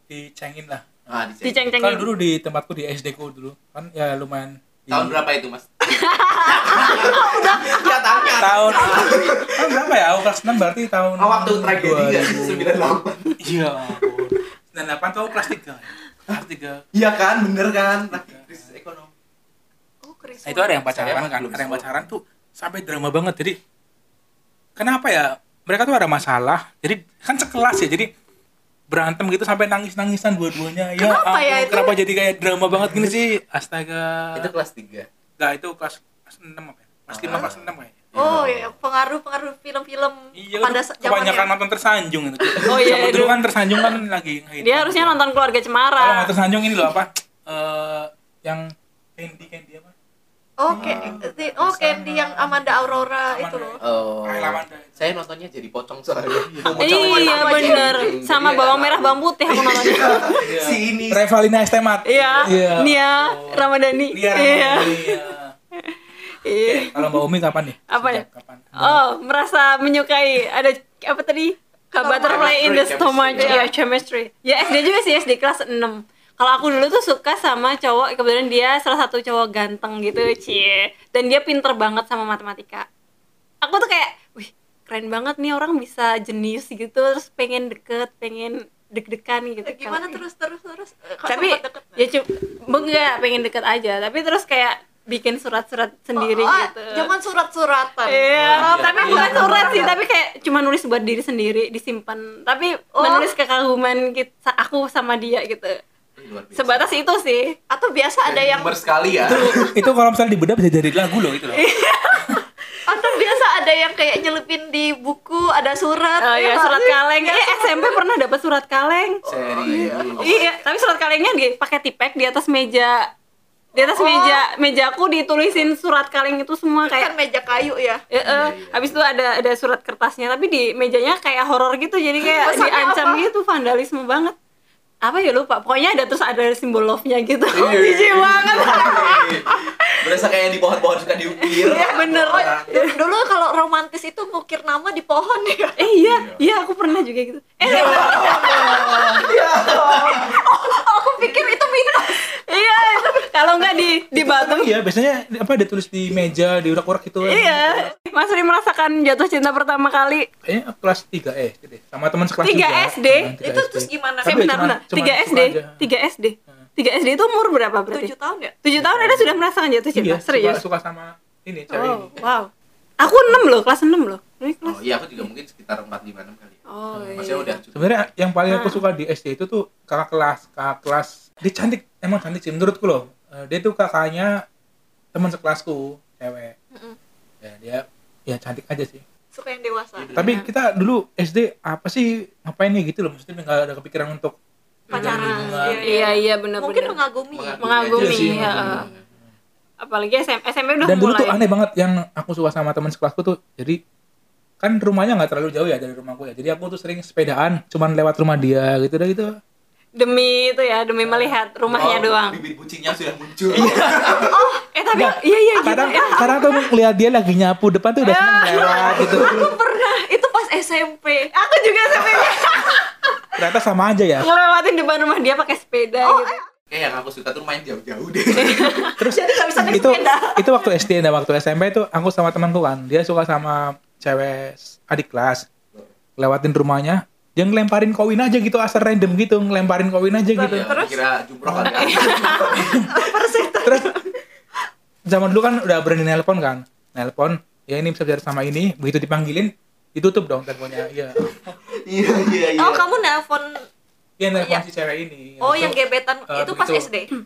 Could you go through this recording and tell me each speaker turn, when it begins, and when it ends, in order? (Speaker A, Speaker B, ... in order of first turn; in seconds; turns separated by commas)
Speaker A: 0.1-1.0, Speaker B: 1.1-1.6, Speaker C: 1.4-2.1, Speaker A: 1.8-5.2, Speaker B: 4.9-5.8, Speaker C: 5.9-7.8, Speaker B: 6.4-9.8, Speaker D: 7.3-9.4, Speaker A: 8.4-12.8, Speaker B: 11.2-13.3, Speaker A: 13.4-16.8, Speaker B: 16.9-19.1, Speaker A: 18.1-18.7, Speaker D: 20.0-20.8, Speaker A: 20.4-23.6, Speaker B: 20.9-22.1, Speaker A: 24.8-28.1, Speaker A: 28.9-34.5, Speaker D: 31.0-31.9, Speaker B: 32.8-33.1, Speaker B: 34.3-35.1, Speaker A: 35.4-37.9, Speaker B: 37.1-38.8, Speaker D: 38.1-41.5, Speaker A: 40.3-45.2, Speaker C: 42.6-44.0, Speaker C: 44.6-46.3, Speaker A: 46.0-49.9, Speaker D: 50.6-53.8, Speaker A: 50.7-54.9, Speaker B: 50.7-51.2, Speaker B: 53.8-61.2, Speaker A: 56.5-56.9, Speaker D: 56.7-58.0, Speaker C: 56.8-60.4, Speaker A: 60.4-65.5, Speaker C: 62.0-65.3, Speaker C: 65.8-67.2, Speaker A: 66.6-69.0, Speaker C: 67.9-68.2, Speaker C: 68.8-82.9, Speaker D: 72.0-72.7, Speaker B: 72.2-73.7, Speaker D: 73.4-73.7, Speaker C: 83.6-90.2, Speaker D: 89.7-92.0, Speaker C: 91.2-97.1, Speaker D: 96.2-100.0, Speaker C: 98.0-105.8, Speaker B: 98.4-99.9, Speaker D: 103.0-103.3, Speaker B: 106.2-107.0, Speaker C: 106.5-107.5, Speaker D: 107.7-108.7, Speaker B: 108.2-109.5, Speaker A: 109.3-111.6, Speaker C: 111.5-112.4, Speaker D: 112.9-118.0, Speaker C: 116.2-119.2, Speaker D: 119.2-120.5, Speaker B: 119.3-120.4, Speaker C: 120.2-123.1, Speaker D: 123.7-124.4, Speaker C: 123.7-127.1, Speaker D: 126.8-128.0, Speaker C: 128.1-134.3, Speaker B: 128.2-129.0, Speaker D: 132.2-133.2, Speaker C: 135.0-139.2, Speaker B: 137.5-142.7, Speaker D: 137.9-139.3, Speaker C: 141.7-142.9, Speaker D: 141.7-145.8, Speaker C: 145.8-148.4, Speaker B: 146.0-146.4, Speaker A: 147.6-149.2, Speaker D: 147.8-152.2, Speaker B: 147.8-150.3, Speaker C: 151.9-154.7, Speaker A: 154.1-157.9, Speaker C: 157.2-160.3, Speaker A: 160.4-165.8, Speaker C: 162.4-163.3, Speaker D: 163.4-164.5, Speaker C: 164.2-168.1, Speaker D: 167.9-168.6, Speaker C: 168.6-170.6, Speaker A: 168.8-169.3, Speaker A: 169.9-172.2, Speaker C: 171.7-172.5, Speaker C: 173.0-175.2, Speaker B: 174.6-178.0, Speaker C: 176.7-177.6, Speaker A: 177.7-184.3, Speaker C: 178.5-178.8, Speaker A: 185.1-186.5, Speaker A: 187.4-189.0, Speaker D: 189.3-190.1, Speaker B: 190.0-190.4, Speaker A: 190.1-194.3, Speaker C: 194.9-197.0, Speaker A: 194.9-196.0, Speaker D: 194.9-197.6, Speaker B: 197.3-199.0, Speaker C: 197.6-198.9, Speaker A: 197.9-198.9, Speaker C: 199.8-201.4, Speaker A: 200.8-203.8, Speaker A: 204.6-209.3, Speaker C: 209.9-212.4, Speaker A: 211.0-211.3, Speaker B: 211.7-214.3, Speaker A: 213.5-214.1, Speaker D: 214.3-214.6, Speaker C: 214.7-216.6, Speaker A: 214.9-219.3, Speaker D: 215.7-216.5, Speaker C: 218.0-218.9, Speaker D: 218.5-222.8, Speaker B: 218.9-219.5, Speaker A: 223.4-224.3, Speaker C: 224.2-226.4, Speaker D: 226.0-226.4, Speaker B: 226.7-228.7, Speaker C: 228.3-228.9, Speaker A: 229.0-235.5, Speaker D: 229.1-230.7, Speaker A: 236.2-240.7, Speaker D: 240.3-241.0, Speaker B: 240.5-242.7, Speaker A: 241.4-242.9, Speaker D: 241.6-244.0, Speaker C: 241.8-242.6, Speaker A: 245.1-251.2, Speaker B: 251.3-252.8, Speaker D: 252.6-253.6, Speaker A: 254.2-255.8, Speaker D: 254.3-254.6, Speaker D: 255.4-257.1, Speaker A: 256.3-256.9